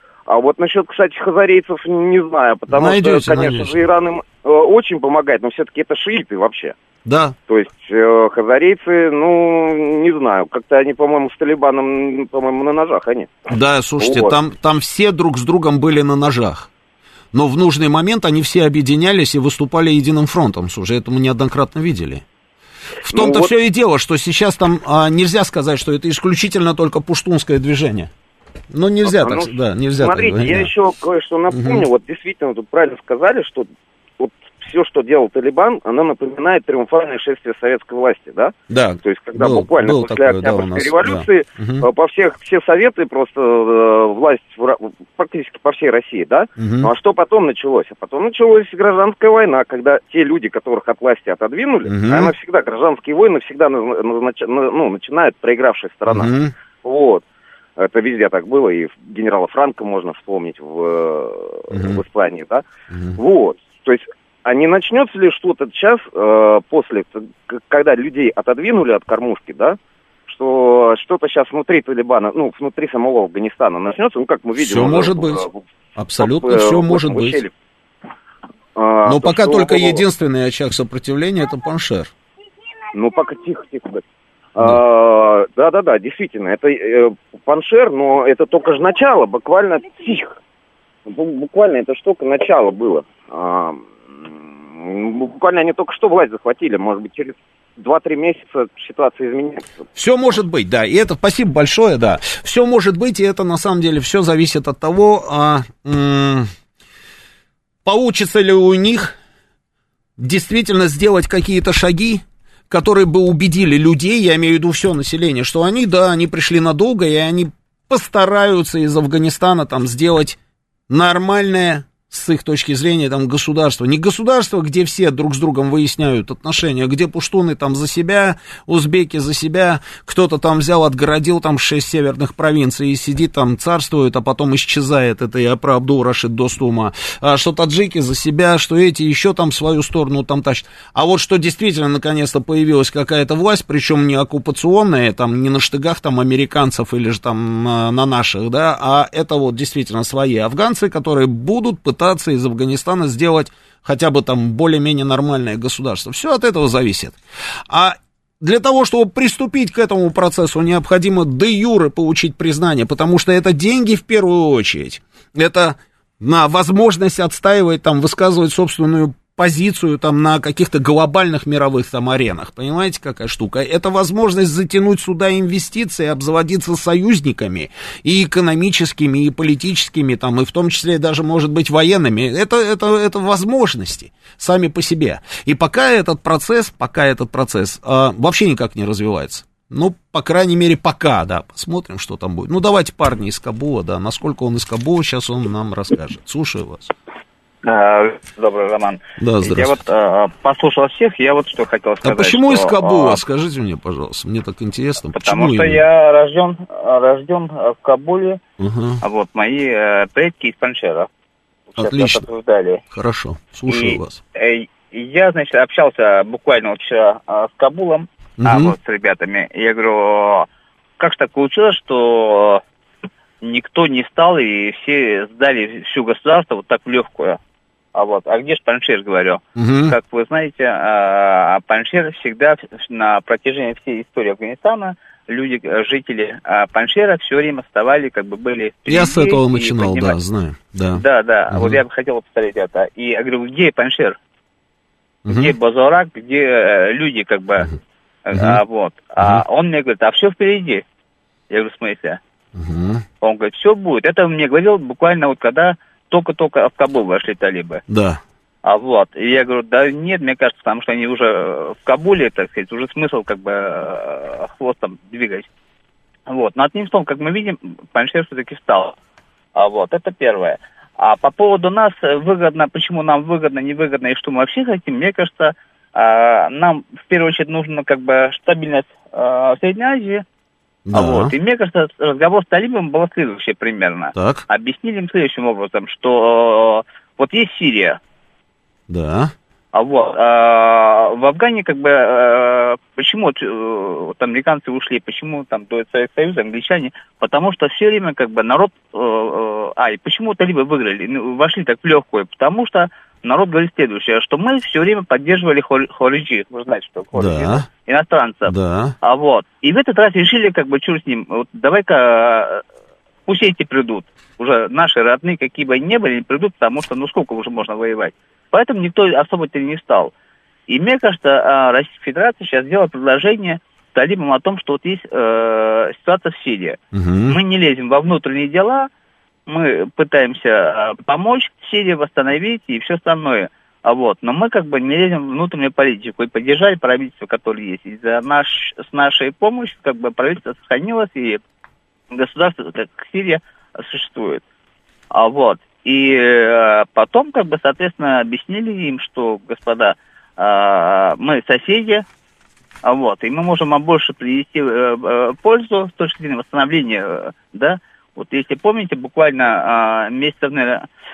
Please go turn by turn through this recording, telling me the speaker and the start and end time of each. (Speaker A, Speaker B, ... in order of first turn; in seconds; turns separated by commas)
Speaker A: 0.3-6.8, Speaker B: 2.7-3.9, Speaker B: 7.1-7.4, Speaker A: 7.5-13.3, Speaker B: 13.5-16.7, Speaker A: 14.0-14.4, Speaker B: 17.3-22.2, Speaker B: 23.0-28.1, Speaker A: 23.1-23.5, Speaker B: 28.7-30.7, Speaker A: 29.0-33.7, Speaker B: 31.5-31.9, Speaker A: 34.2-57.2, Speaker B: 38.7-41.9, Speaker B: 46.6-46.9, Speaker B: 51.9-52.3, Speaker B: 56.1-56.5, Speaker A: 57.8-62.6, Speaker B: 61.7-62.0, Speaker B: 62.9-63.2, Speaker A: 63.2-75.6, Speaker B: 74.6-75.5, Speaker B: 76.0-77.4, Speaker A: 76.2-77.5, Speaker A: 78.8-80.0, Speaker B: 79.1-82.1, Speaker A: 82.9-84.0, Speaker A: 84.6-90.4, Speaker A: 91.1-99.8, Speaker B: 100.0-106.5, Speaker B: 107.8-109.2, Speaker B: 110.2-120.4, Speaker B: 120.9-157.2, Speaker B: 157.7-196.9, Speaker C: 197.6-203.2, Speaker B: 199.2-199.8, Speaker B: 202.0-205.8, Speaker C: 205.1-208.4, Speaker B: 208.6-209.0, Speaker C: 209.0-211.1, Speaker C: 211.8-212.8, Speaker B: 211.8-212.3, Speaker B: 212.9-214.2, Speaker C: 213.7-220.5, Speaker B: 218.4-218.8, Speaker C: 221.0-222.6, Speaker C: 223.4-227.4, Speaker C: 227.9-240.2, Speaker B: 229.6-230.0, Speaker B: 238.9-241.8, Speaker C: 240.9-244.2, Speaker C: 245.3-247.8, Speaker B: 245.3-245.5, Speaker C: 248.3-250.8, Speaker B: 248.3-248.6, Speaker C: 251.5-252.2, Speaker B: 252.6-253.0, Speaker C: 253.2-257.8, Speaker B: 257.9-258.2, Speaker C: 258.6-265.5, Speaker C: 266.3-268.9, Speaker C: 269.6-280.2, Speaker B: 280.9-281.3, Speaker C: 280.9-288.0, Speaker B: 284.1-284.4, Speaker B: 288.9-289.3, Speaker C: 289.7-312.6, Speaker B: 307.1-307.7, Speaker B: 308.5-308.9, Speaker C: 313.3-320.1, Speaker C: 320.7-328.9, Speaker B: 326.9-327.4, Speaker C: 329.5-341.4, Speaker C: 342.1-344.4, Speaker C: 345.1-352.1, Speaker C: 352.8-360.9